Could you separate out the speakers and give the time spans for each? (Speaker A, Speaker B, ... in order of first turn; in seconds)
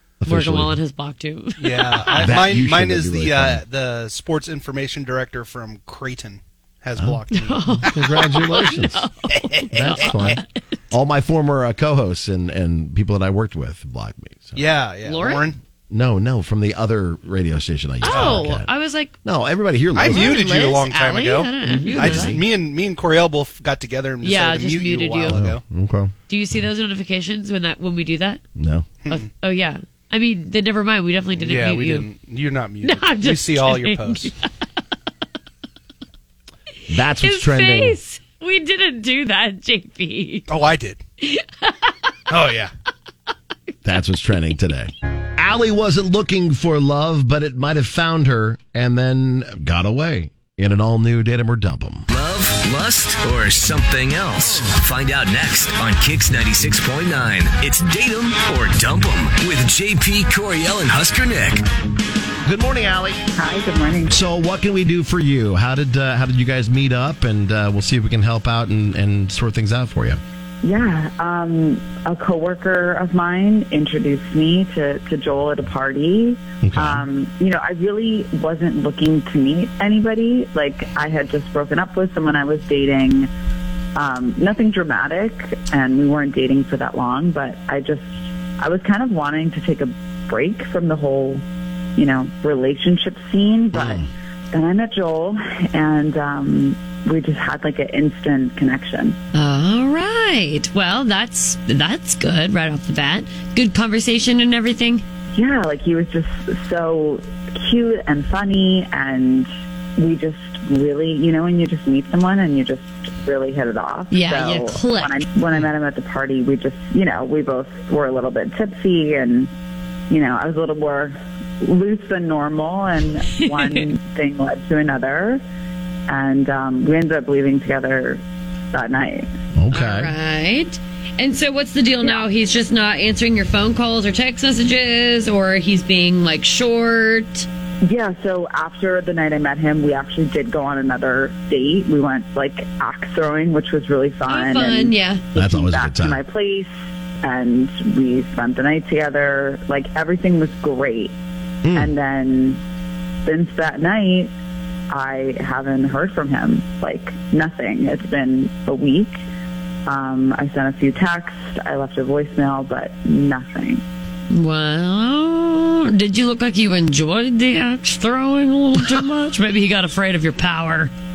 Speaker A: 0.2-0.8, 2.2-3.6, 7.7-9.1, 9.7-14.6, 15.9-18.7, 19.2-20.5, 21.6-22.4, 25.3-26.1, 28.6-28.9, 36.9-38.0, 43.9-52.1, 62.5-63.2, 64.1-70.2, 76.6-77.1, 93.7-94.1, 129.6-130.1, 145.3-146.2, 151.6-151.9
Speaker B: 0.2-2.4, 7.3-10.5, 15.1-15.4, 18.0-19.1, 20.1-22.4, 24.2-25.4, 26.3-28.4, 29.1-32.1, 32.8-34.5, 37.2-40.5, 41.2-42.2, 99.3-105.0, 114.1-115.1, 123.4-123.8, 129.7-137.5, 144.3-145.2, 164.3-170.9
Speaker C: 1.6-8.1, 9.8-10.3, 14.6-15.6, 18.1-18.4, 19.9-25.6, 31.4-34.3, 40.5-41.0, 42.3-42.7
Speaker D: 52.1-61.6
Speaker E: 63.4-64.1, 70.6-83.3, 84.0-91.4, 92.0-99.2, 105.3-119.5, 120.1-125.4, 126.1-128.2, 128.7-129.3, 137.8-146.7, 147.2-151.1, 151.7-152.6, 153.2-154.3, 154.9-159.2, 159.9-163.8